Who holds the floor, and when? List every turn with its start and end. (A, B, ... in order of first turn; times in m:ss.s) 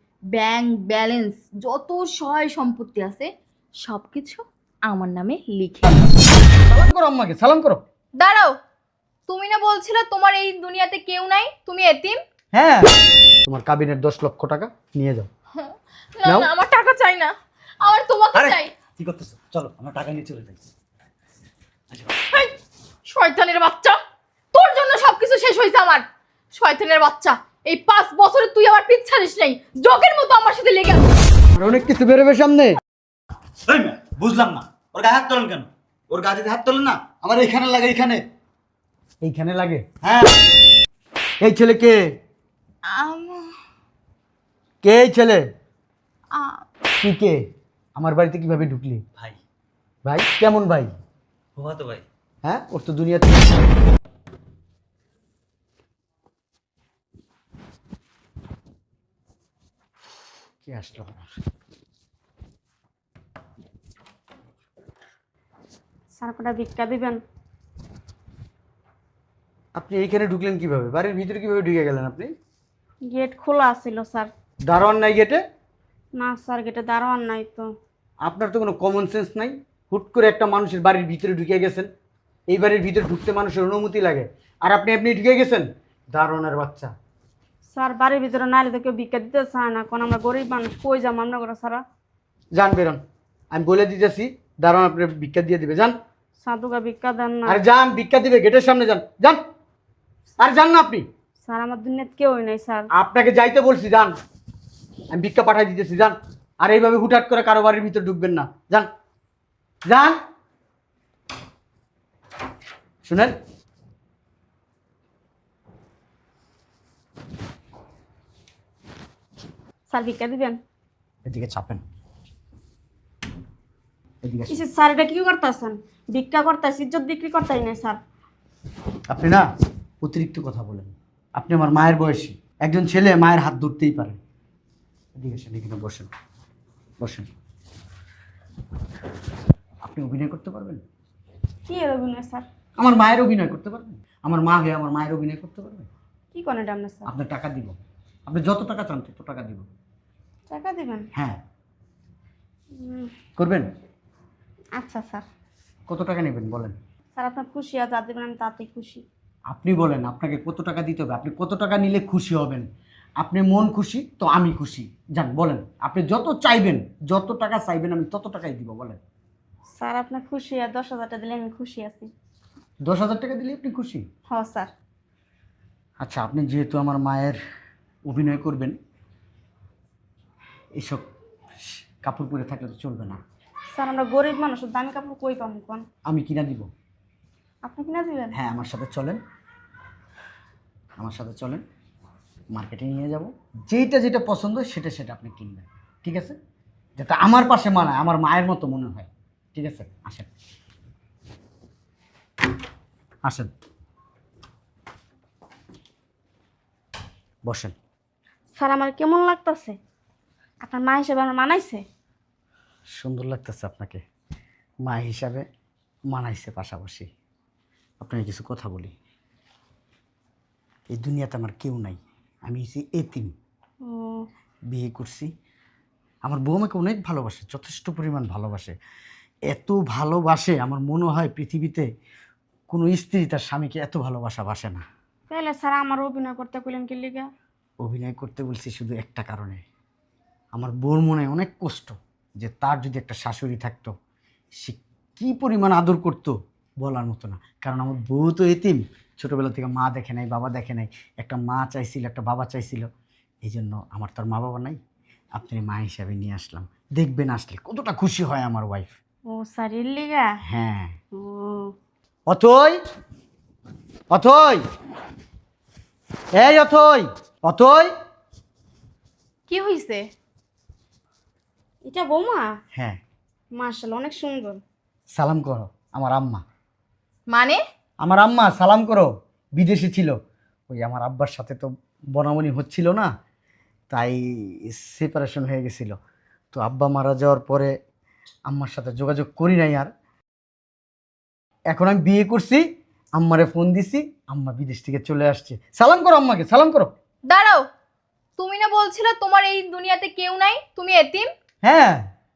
0:00.3-0:03.3 A
0:03.8-0:06.1 A
0:06.6-0:07.8 B
0:08.2-0:08.5 A
0:09.3-0:12.2 A
0:12.5-0:12.9 B
0:13.5-0:15.3 B
0:15.6-0:18.7 A
0:16.2-0:16.5 B
0:18.4-0:20.6 C
0:23.1-0:24.0 A
0:24.5-0:31.0 A
0:31.5-0:32.8 B
0:33.7-0:38.2 C
0:39.2-0:39.9 B
0:40.0-0:40.3 C
0:41.4-0:42.0 B
0:42.9-0:43.5 A
0:44.8-0:45.4 B
0:46.4-0:46.6 A
0:47.0-0:47.4 B
0:48.0-0:49.0 B
0:50.0-0:50.9 B
0:51.6-0:52.0 C
0:52.4-0:53.6 B
1:00.6-1:01.3 B
1:06.2-1:07.2 D
1:09.8-1:12.3 B
1:13.1-1:14.3 D
1:14.7-1:15.4 B
1:16.2-1:17.7 D
1:18.2-1:21.9 B
1:22.5-1:26.9 B
1:27.7-1:31.8 D
1:32.5-1:33.0 B
1:33.5-1:36.0 B
1:36.4-1:37.6 D
1:37.5-1:39.4 B
1:40.4-1:41.1 B
1:41.4-1:42.9 D
1:42.9-1:44.1 B
1:45.1-1:48.9 B
1:49.9-1:50.2 B
1:53.0-1:53.3 B
1:59.9-2:00.6 D
2:01.2-2:01.8 B
2:04.2-2:04.6 B
2:04.5-2:08.0 D
2:09.1-2:09.4 B
2:10.0-2:14.2 B
2:15.2-2:16.1 B
2:17.0-2:17.3 B
2:19.8-2:20.8 B
2:21.7-2:22.5 D
2:22.8-2:25.9 B
2:26.3-2:27.1 D
2:27.1-2:27.8 B
2:28.3-2:29.6 B
2:30.5-2:31.0 D
2:31.1-2:31.4 B
2:32.8-2:33.1 D
2:33.4-2:33.7 B
2:34.8-2:35.3 D
2:35.9-2:36.8 B
2:37.2-2:39.0 D
2:39.5-2:42.7 B
2:43.2-2:49.0 B
2:49.8-2:52.1 D
2:52.8-2:54.0 B
2:54.3-2:54.7 D
2:56.0-2:57.4 B
2:58.1-2:58.8 B
3:00.8-3:01.0 B
3:01.6-3:03.2 B
3:03.7-3:05.8 D
3:06.1-3:06.7 B
3:07.6-3:08.4 D
3:08.3-3:09.2 B
3:11.0-3:11.6 B
3:12.5-3:16.4 B
3:17.0-3:20.3 B
3:23.2-3:23.5 B
3:27.5-3:27.8 B
3:28.6-3:29.8 D
3:30.6-3:31.8 D
3:33.0-3:34.0 B
3:34.8-3:35.4 B
3:36.1-3:37.1 B
3:38.0-3:38.9 B
3:40.9-3:43.3 B
3:43.8-3:44.3 D
3:44.7-3:45.3 B
3:46.2-3:48.7 B
3:49.5-3:51.9 B
3:52.7-3:54.8 B
3:55.3-3:57.3 D
3:57.8-3:59.6 B
4:00.6-4:03.9 B
4:04.6-4:12.9 B
4:13.4-4:14.8 B
4:15.4-4:19.0 B
4:19.3-4:20.4 D
4:20.4-4:21.0 B
4:21.1-4:21.7 D
4:22.3-4:22.8 B
4:24.1-4:24.6 B
4:26.4-4:27.9 B
4:29.5-4:30.1 A
4:31.8-4:32.5 D
4:32.7-4:33.0 B
4:33.6-4:34.6 D
4:35.1-4:36.4 B
4:37.3-4:37.6 A
4:38.0-4:40.2 B
4:40.7-4:43.1 B
4:43.9-4:46.0 B
4:46.5-4:47.7 B
4:48.5-4:49.9 B
4:51.7-4:52.6 B
4:53.2-4:56.9 B
4:57.3-4:57.6 A
4:58.4-5:01.3 A
5:01.6-5:02.0 B